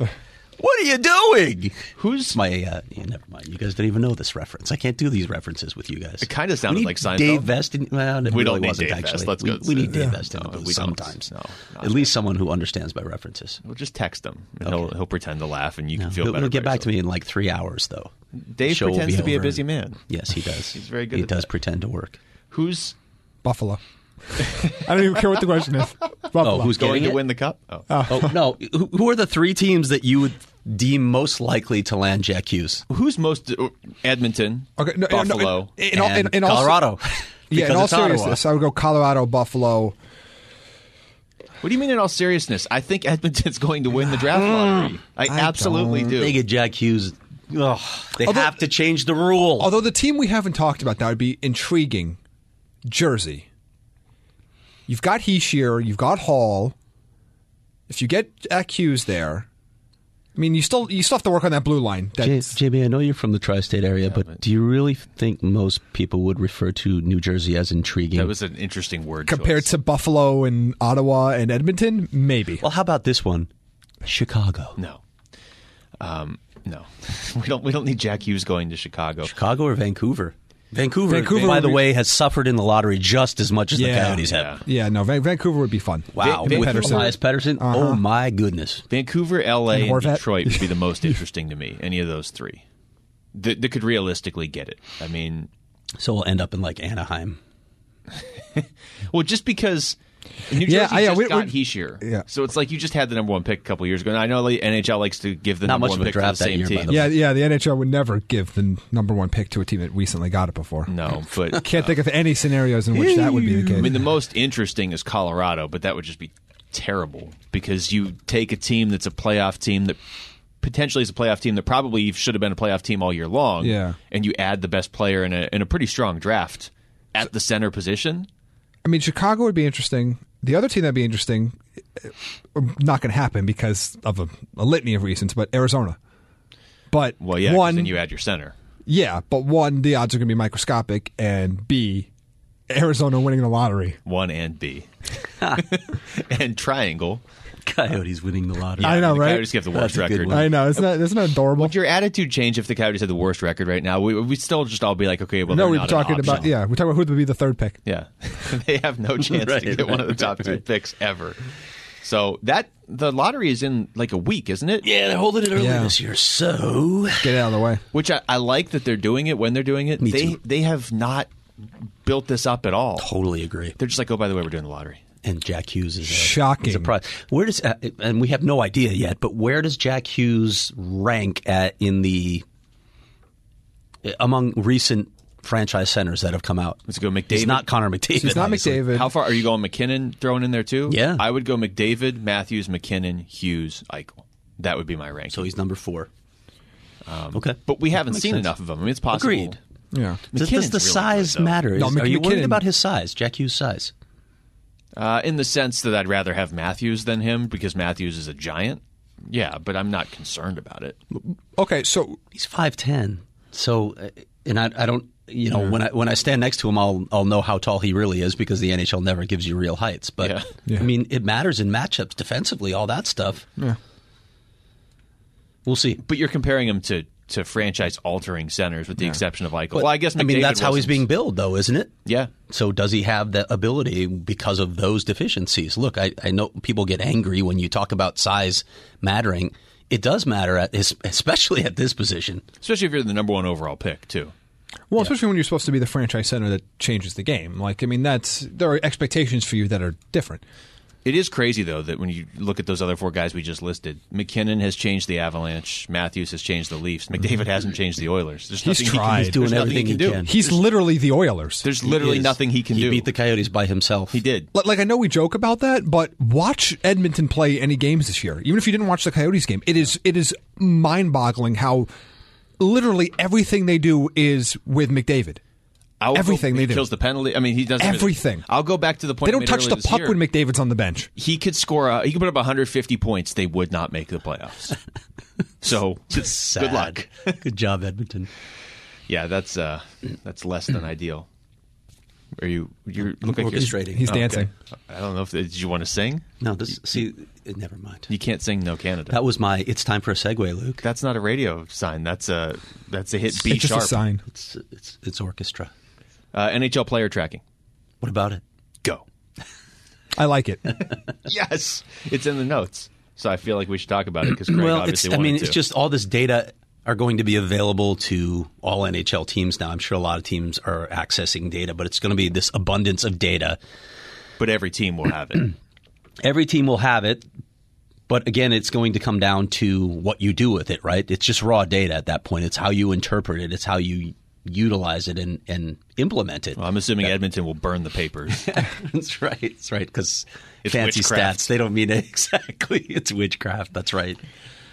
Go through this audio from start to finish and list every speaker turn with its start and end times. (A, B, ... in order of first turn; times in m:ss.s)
0:00.6-0:11.3 A
0:02.0-0:02.4 B
0:06.2-0:07.5 B
0:08.2-0:12.2 B
0:11.8-0:13.6 A
0:13.6-0:16.9 B
0:16.0-0:18.1 A
0:18.3-0:20.0 B
0:18.7-0:22.2 A
0:20.7-0:21.5 B
0:22.5-0:22.9 B
0:23.4-0:23.8 C
0:24.4-0:26.8 C
0:24.5-0:24.8 B
0:26.4-0:27.2 A
0:26.7-0:27.9 B
0:27.9-0:28.4 C
0:28.1-0:32.8 A
0:32.9-0:35.7 B
0:34.8-0:36.9 C
0:35.9-0:38.4 A
0:37.5-0:39.9 C
0:41.6-0:46.4 B
0:44.3-0:45.0 A
0:45.3-0:46.2 C
0:46.2-0:49.7 A
0:48.2-0:48.5 C
0:49.6-0:52.2 C
0:52.8-0:53.4 C
0:54.9-0:56.7 C
0:57.9-0:59.4 C
1:00.4-1:02.6 C
1:02.2-1:08.3 A
1:08.1-1:09.7 B
1:09.3-1:12.6 C
1:12.6-1:13.5 A
1:14.0-1:14.8 A
1:16.0-1:19.3 B
1:19.2-1:24.5 A
1:21.1-1:21.8 C
1:23.8-1:28.0 C
1:24.2-1:24.6 B
1:26.1-1:28.8 A
1:26.2-1:27.1 B
1:28.9-1:32.6 B
1:29.7-1:30.7 C
1:33.3-1:35.5 B
1:36.0-1:37.4 A
1:38.4-1:47.0 B
1:40.6-1:42.2 C
1:45.6-1:47.2 A
1:46.9-1:50.9 C
1:50.9-1:51.9 B
1:51.5-1:54.0 C
1:52.9-1:53.9 A
1:53.8-2:00.0 B
2:00.6-2:08.3 B
2:03.6-2:04.0 C
2:08.8-2:16.0 C
2:16.9-2:18.0 C
2:17.2-2:18.5 B
2:18.9-2:22.1 C
2:22.7-2:24.0 C
2:24.0-2:24.9 B
2:25.4-2:27.2 B
2:27.6-2:29.1 A
2:28.8-2:30.8 B
2:28.8-2:29.6 C
2:29.7-2:30.6 A
2:30.3-2:31.7 C
2:31.6-2:36.5 B
2:35.5-2:37.8 C
2:37.8-2:41.4 B
2:39.3-2:40.6 A
2:42.0-2:44.8 B
2:44.8-2:47.4 A
2:45.5-2:45.9 C
2:47.2-2:47.8 C
2:47.9-2:51.3 B
2:50.0-2:50.4 A
2:52.0-2:53.1 B
2:53.0-2:53.8 A
2:53.8-2:55.0 B
2:55.2-3:02.4 A
2:56.0-2:56.9 C
3:04.0-3:08.8 A
3:06.9-3:07.6 B
3:08.2-3:09.1 C
3:08.9-3:15.5 B
3:10.9-3:11.2 A
3:15.3-3:16.1 A
3:17.0-3:19.6 B
3:17.3-3:18.5 A
3:19.1-3:19.6 A
3:19.9-3:20.2 C
3:20.3-3:21.6 B
3:20.3-3:23.9 A
3:21.7-3:22.6 C
3:25.0-3:31.0 B
3:31.1-3:32.2 C
3:32.3-3:43.5 A
3:40.2-3:40.5 B
3:45.6-3:46.0 A
3:46.0-3:51.0 B
3:49.7-3:51.9 A
3:52.0-3:52.3 B
3:52.5-4:02.4 A
4:02.6-4:04.3 B
4:04.9-4:10.4 C
4:11.0-4:20.6 B
4:18.6-4:19.5 C
4:19.1-4:20.3 A
4:20.2-4:21.6 C
4:21.6-4:23.1 B
4:21.8-4:24.2 A
4:24.1-4:24.5 B
4:24.5-4:31.9 C
4:32.6-4:35.4 C
4:36.0-4:40.2 B
4:36.1-4:36.9 C
4:37.8-4:38.5 C
4:39.2-4:41.1 C
4:41.2-4:44.8 B
4:45.6-4:47.4 B
4:46.1-4:48.3 A
4:49.1-4:51.3 B
4:52.4-4:56.2 B
4:53.2-4:54.1 A
4:53.8-4:54.5 C
4:56.4-4:58.1 A
4:58.1-4:59.2 B
4:59.1-5:00.8 A
5:00.8-5:04.0 B
5:03.3-5:04.2 C
5:04.3-5:05.7 A
5:06.3-5:07.4 B
5:08.0-5:08.4 A
5:10.1-5:10.7 C
5:11.2-5:15.6 B
5:14.3-5:23.6 A
5:24.4-5:25.5 B
5:26.2-5:27.2 A
5:28.1-5:36.6 A
5:36.6-5:38.6 B
5:38.3-5:44.2 A
5:40.6-5:41.5 B